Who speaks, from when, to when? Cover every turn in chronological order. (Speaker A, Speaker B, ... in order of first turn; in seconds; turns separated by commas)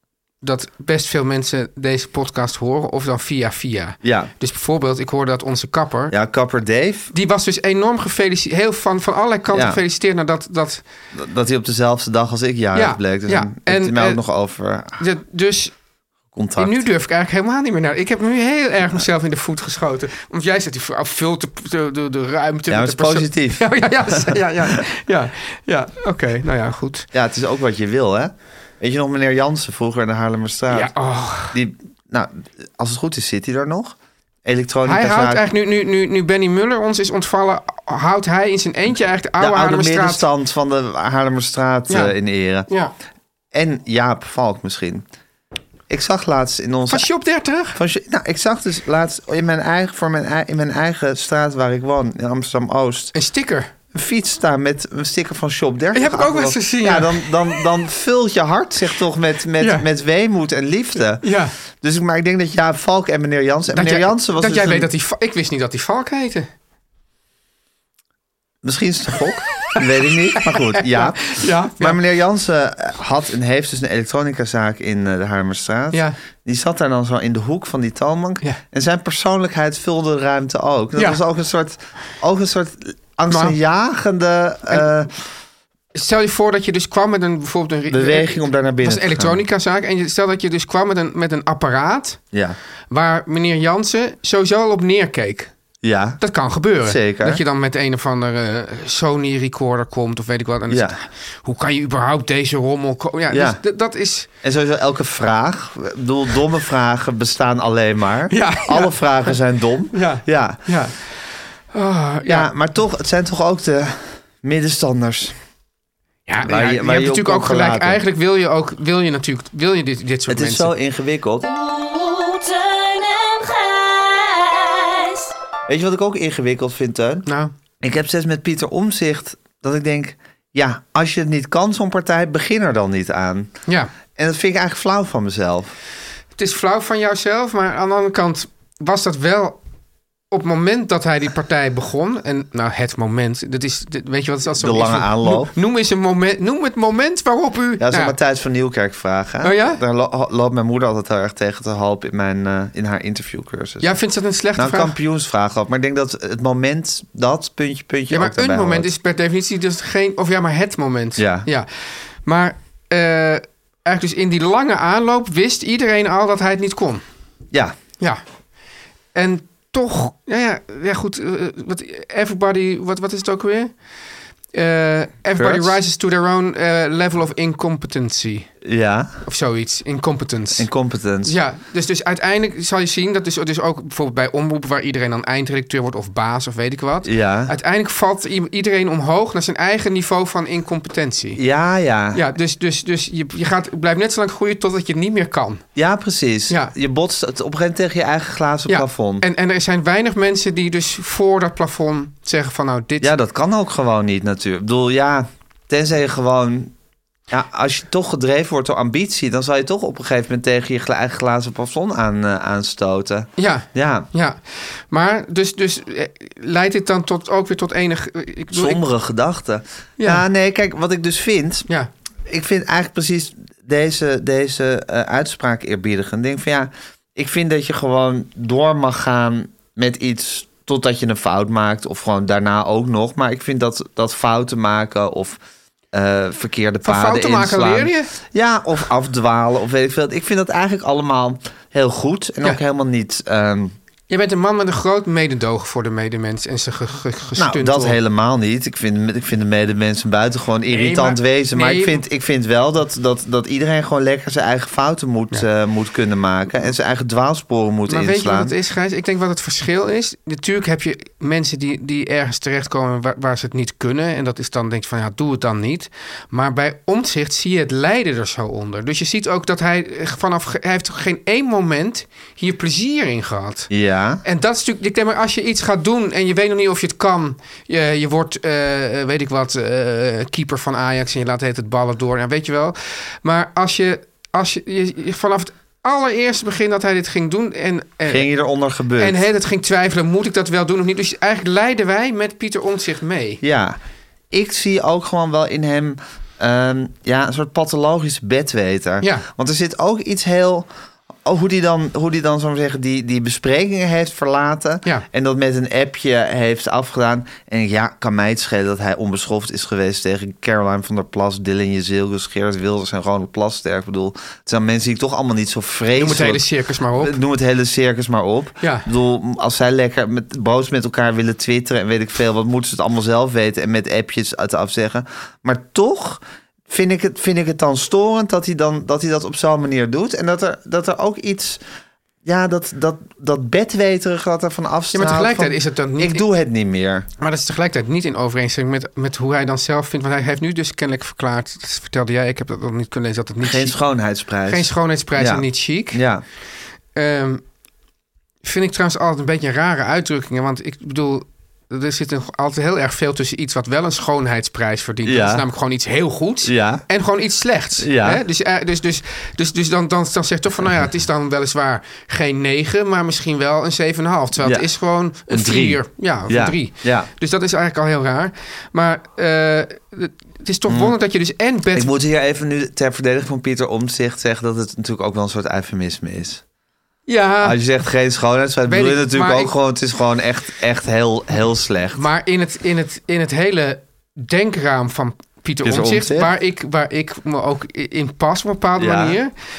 Speaker A: 0.4-6.1, Speaker B: 4.0-4.3, Speaker B: 6.1-7.1, Speaker A: 7.1-10.8, Speaker B: 9.5-9.8, Speaker B: 11.1-15.0, Speaker A: 12.7-14.2, Speaker A: 15.0-15.7, Speaker B: 16.3-16.8, Speaker A: 16.6-27.1, Speaker B: 22.7-24.4, Speaker B: 27.1-30.9, Speaker A: 30.7-31.6, Speaker B: 31.5-35.5, Speaker A: 34.8-40.2, Speaker B: 39.4-42.7, Speaker A: 41.9-42.1, Speaker A: 42.7-42.9, Speaker B: 43.5-45.0, Speaker B: 45.9-47.1, Speaker A: 46.9-47.8, Speaker B: 47.7-53.1, Speaker A: 53.1-53.7, Speaker B: 53.9-61.3, Speaker A: 55.9-57.6, Speaker A: 59.6-59.9, Speaker A: 61.2-61.5, Speaker B: 61.8-64.9, Speaker A: 63.7-66.5, Speaker B: 68.6-85.1, Speaker A: 70.4-72.0, Speaker A: 83.3-83.5, Speaker A: 85.9-92.2, Speaker B: 87.9-89.4, Speaker A: 92.9-95.5, Speaker B: 95.8-96.2, Speaker A: 96.2-104.3, Speaker B: 96.8-97.4, Speaker B: 100.7-101.0, Speaker B: 103.3-103.6, Speaker B: 104.4-110.6, Speaker A: 108.3-109.3, Speaker A: 109.9-111.0, Speaker A: 111.7-112.5, Speaker B: 112.2-115.3, Speaker A: 116.3-120.7, Speaker B: 116.4-118.0, Speaker B: 120.3-121.5, Speaker C: 121.4-125.3, Speaker B: 125.7-127.2, Speaker A: 127.2-127.5, Speaker B: 127.8-133.5, Speaker B: 134.2-135.7, Speaker A: 136.3-139.6, Speaker A: 140.3-148.2, Speaker B: 144.6-145.5, Speaker B: 147.8-153.9, Speaker A: 149.4-149.8, Speaker A: 153.8-154.9, Speaker B: 154.6-158.9, Speaker A: 158.1-167.0, Speaker B: 161.2-161.5, Speaker A: 169.1-173.8, Speaker A: 174.5-178.5, Speaker B: 175.3-175.8, Speaker B: 178.6-179.2, Speaker A: 179.2-180.7, Speaker B: 180.5-181.4, Speaker A: 181.2-191.4, Speaker B: 187.0-187.5, Speaker B: 191.3-192.2, Speaker A: 192.1-195.6, Speaker B: 195.8-199.2, Speaker A: 198.7-203.1, Speaker B: 203.0-206.7, Speaker B: 207.3-214.1, Speaker A: 213.4-218.8, Speaker B: 218.5-221.7, Speaker A: 220.0-220.2, Speaker B: 222.3-235.4, Speaker B: 235.9-243.8, Speaker A: 236.8-238.1, Speaker A: 244.1-248.0, Speaker B: 247.4-258.5, Speaker A: 250.7-252.0, Speaker A: 257.9-273.7, Speaker B: 273.7-274.2, Speaker A: 274.2-288.3, Speaker B: 288.1-289.2, Speaker A: 289.0-293.4, Speaker B: 293.4-293.8, Speaker B: 294.3-300.7, Speaker A: 299.0-299.3, Speaker B: 301.2-316.4, Speaker A: 315.9-317.2, Speaker B: 317.0-331.6, Speaker B: 332.2-337.1, Speaker A: 334.9-336.2, Speaker A: 337.2-343.8, Speaker B: 343.4-346.2, Speaker A: 344.5-346.0, Speaker A: 346.9-347.4, Speaker A: 348.4-371.9, Speaker B: 355.0-355.4, Speaker B: 356.4-356.8, Speaker B: 357.8-358.2, Speaker B: 364.4-364.7, Speaker B: 365.3-367.1, Speaker B: 370.7-370.9, Speaker B: 371.7-376.4, Speaker A: 377.1-377.6, Speaker B: 377.4-382.0, Speaker A: 378.7-379.5, Speaker A: 381.9-389.3, Speaker B: 385.6-386.3, Speaker B: 388.8-389.2